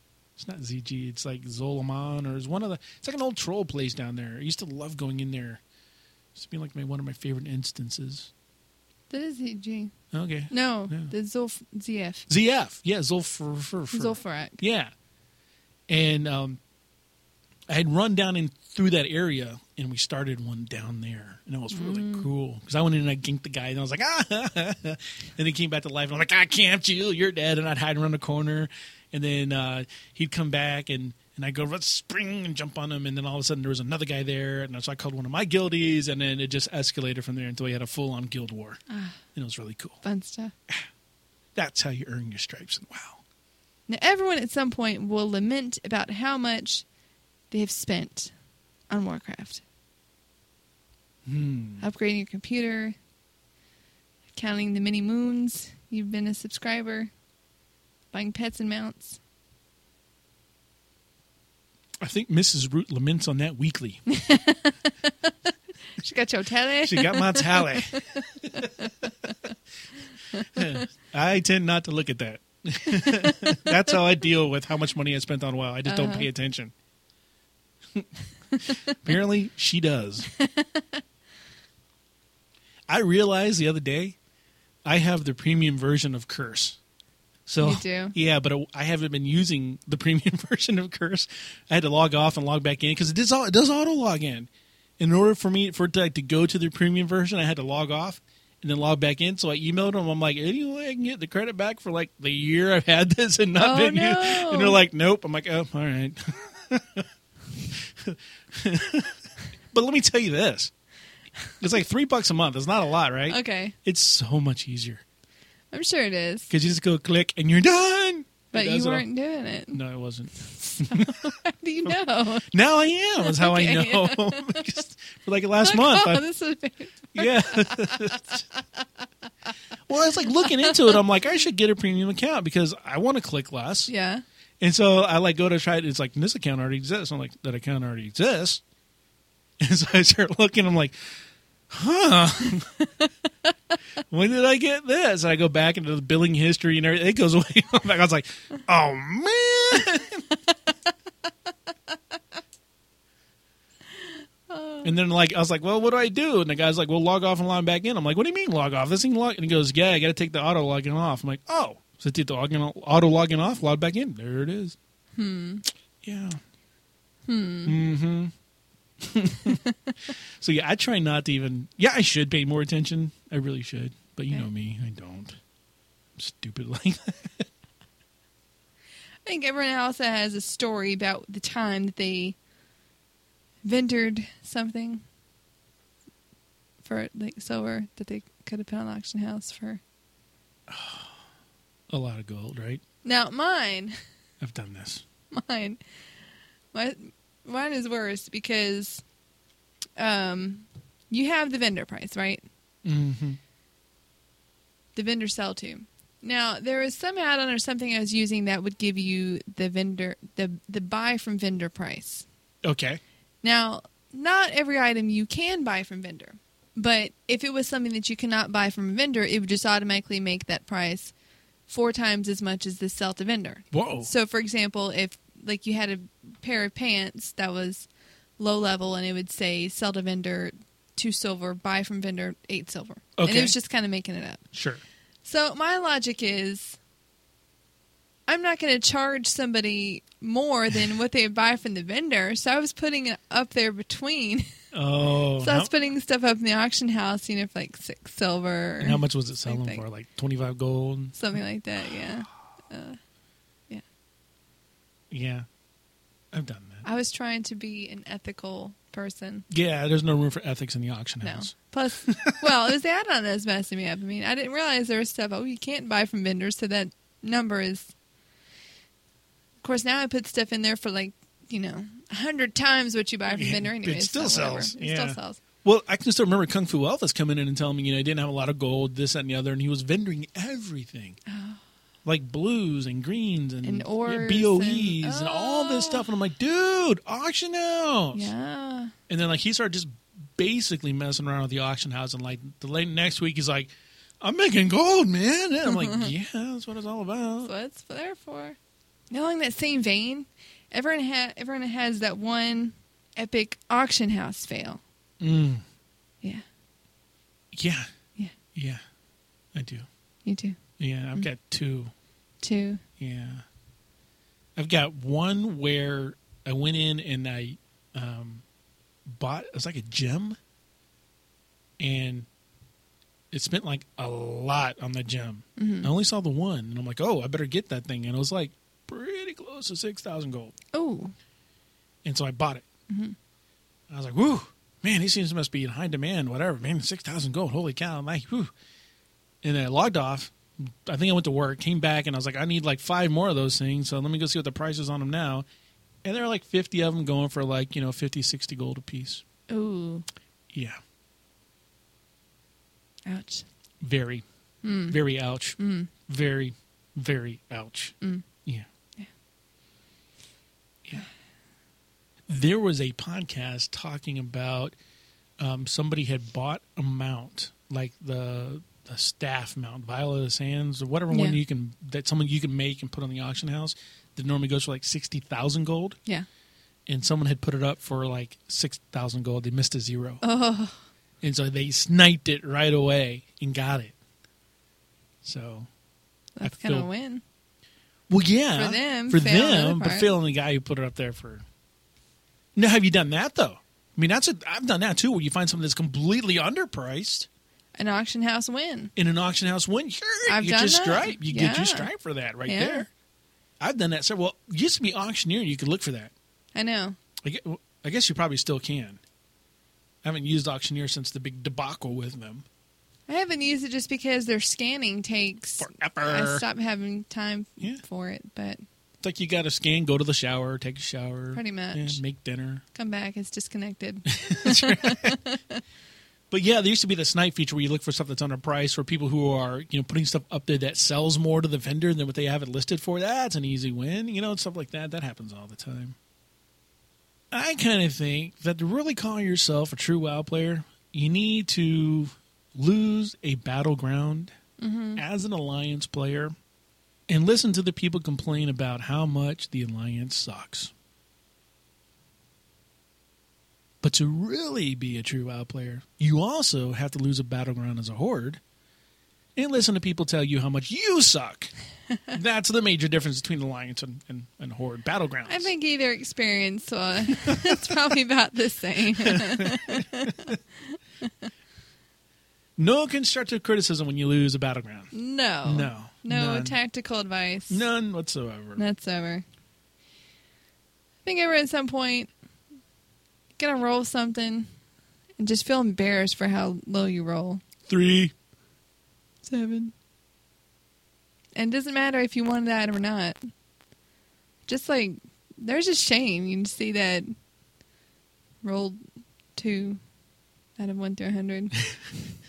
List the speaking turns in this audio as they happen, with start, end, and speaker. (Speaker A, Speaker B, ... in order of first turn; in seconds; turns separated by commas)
Speaker A: 0.4-5.6, Speaker A: 6.3-8.3, Speaker B: 9.1-9.9, Speaker A: 10.1-11.1, Speaker B: 10.5-12.3, Speaker A: 12.3-14.9, Speaker B: 13.9-14.6, Speaker A: 15.9-16.6, Speaker A: 17.7-38.8, Speaker B: 21.7-22.3, Speaker B: 38.9-39.2, Speaker A: 39.3-40.0, Speaker B: 40.0-40.5, Speaker A: 41.5-43.2, Speaker B: 43.9-46.8, Speaker B: 47.5-48.3, Speaker B: 48.9-49.6, Speaker A: 51.2-51.8, Speaker B: 51.8-53.0, Speaker B: 54.3-57.1, Speaker B: 58.1-59.2, Speaker A: 62.0-64.0, Speaker B: 64.1-68.9, Speaker A: 66.8-69.3, Speaker B: 70.3-70.8, Speaker A: 70.5-76.7, Speaker B: 72.9-73.9, Speaker B: 75.8-76.3, Speaker A: 78.7-80.3, Speaker B: 80.3-81.0, Speaker A: 82.9-84.2, Speaker A: 84.8-86.8, Speaker A: 87.5-107.1, Speaker B: 87.6-88.1, Speaker B: 103.6-104.8, Speaker A: 107.7-109.2, Speaker A: 109.7-110.7, Speaker A: 111.6-115.0, Speaker B: 113.3-113.8, Speaker B: 115.7-116.5, Speaker A: 116.5-119.0, Speaker B: 118.5-119.8, Speaker A: 119.7-121.3, Speaker B: 120.5-122.5, Speaker A: 122.5-126.2, Speaker B: 123.2-124.7, Speaker B: 125.6-128.8, Speaker A: 127.1-128.4, Speaker A: 129.9-133.9, Speaker B: 130.1-131.0, Speaker B: 133.9-134.2, Speaker A: 134.6-138.6, Speaker A: 139.6-140.9, Speaker A: 141.7-142.7, Speaker B: 142.8-143.5, Speaker A: 144.1-150.2, Speaker B: 151.9-152.2, Speaker B: 154.0-154.9, Speaker A: 154.8-164.8, Speaker B: 165.2-165.6, Speaker A: 166.0-166.4, Speaker B: 167.3-167.8, Speaker A: 167.6-168.3, Speaker A: 169.0-169.6, Speaker B: 169.5-169.9, Speaker A: 170.4-175.4, Speaker A: 176.2-177.4, Speaker B: 179.2-182.3, Speaker B: 183.6-185.0, Speaker B: 186.8-189.8, Speaker A: 190.7-191.2, Speaker A: 191.9-192.8, Speaker B: 193.0-194.0, Speaker A: 194.4-195.0, Speaker B: 195.3-195.8, Speaker B: 196.7-199.0, Speaker B: 200.0-202.4, Speaker A: 202.8-203.4, Speaker B: 204.9-212.2, Speaker A: 212.6-213.0, Speaker B: 213.4-221.1, Speaker B: 221.7-234.4, Speaker A: 223.7-224.1, Speaker A: 233.2-233.5, Speaker A: 234.5-234.8, Speaker B: 235.2-236.8, Speaker B: 238.3-244.5, Speaker A: 244.7-245.7, Speaker B: 245.4-249.8, Speaker A: 248.8-251.2, Speaker B: 251.1-253.0, Speaker A: 255.1-255.4, Speaker A: 256.3-256.9, Speaker B: 256.8-259.5, Speaker A: 259.5-261.5, Speaker B: 261.2-267.9, Speaker A: 262.0-262.5, Speaker B: 269.6-275.4, Speaker A: 273.3-281.2, Speaker B: 281.2-281.6, Speaker A: 282.0-288.3, Speaker B: 283.6-286.1, Speaker B: 288.1-288.9, Speaker A: 289.1-297.5, Speaker B: 295.6-296.1, Speaker B: 297.4-298.6, Speaker B: 299.1-304.8, Speaker A: 305.2-305.6, Speaker A: 307.5-307.9, Speaker A: 308.5-308.8, Speaker A: 309.5-309.9, Speaker B: 310.2-310.6, Speaker A: 310.8-311.9, Speaker B: 312.4-312.8, Speaker A: 313.0-313.4, Speaker A: 314.6-318.4, Speaker A: 319.1-320.4, Speaker A: 321.8-322.3, Speaker A: 323.3-330.5, Speaker B: 325.6-325.9, Speaker B: 330.7-331.1, Speaker A: 332.0-332.6, Speaker B: 332.9-333.1, Speaker A: 333.9-338.5, Speaker A: 339.4-345.4, Speaker A: 346.0-349.2, Speaker B: 349.5-350.1, Speaker A: 350.5-350.8, Speaker B: 353.1-353.4, Speaker A: 353.8-354.2, Speaker B: 354.6-355.0, Speaker A: 354.9-358.7, Speaker B: 355.6-355.9, Speaker A: 362.3-364.7, Speaker A: 365.4-376.0, Speaker B: 371.1-371.4, Speaker A: 376.9-380.2, Speaker B: 380.2-380.8, Speaker A: 381.2-383.9, Speaker A: 385.2-385.7, Speaker B: 386.4-387.2, Speaker A: 386.4-386.9, Speaker A: 388.1-391.4, Speaker B: 388.5-390.1, Speaker A: 392.6-397.3, Speaker B: 397.7-398.9, Speaker A: 398.9-402.9, Speaker B: 400.3-401.9, Speaker B: 402.4-402.9, Speaker A: 403.6-406.1, Speaker B: 406.5-407.0, Speaker A: 407.2-409.0, Speaker A: 410.0-412.4, Speaker B: 413.1-418.6, Speaker A: 415.6-416.4, Speaker A: 419.0-422.6, Speaker B: 421.3-422.0, Speaker B: 422.7-425.6, Speaker A: 424.1-425.2, Speaker A: 426.3-435.9, Speaker A: 437.3-444.3, Speaker B: 444.6-445.0, Speaker A: 444.9-446.3, Speaker A: 447.1-450.7, Speaker A: 453.8-458.4, Speaker A: 459.4-461.5, Speaker B: 461.9-462.1, Speaker A: 462.1-465.5, Speaker B: 465.2-471.3, Speaker A: 467.2-467.8, Speaker A: 469.0-470.4, Speaker A: 472.6-474.9, Speaker B: 474.9-477.6, Speaker A: 475.4-476.6, Speaker A: 477.5-478.6, Speaker B: 478.6-479.2, Speaker B: 481.0-482.1, Speaker B: 483.4-484.5, Speaker B: 485.2-487.4, Speaker A: 487.6-488.1, Speaker B: 489.2-489.7, Speaker B: 491.3-493.2, Speaker B: 494.4-497.1, Speaker B: 498.4-498.8, Speaker B: 499.4-499.8, Speaker B: 500.6-501.5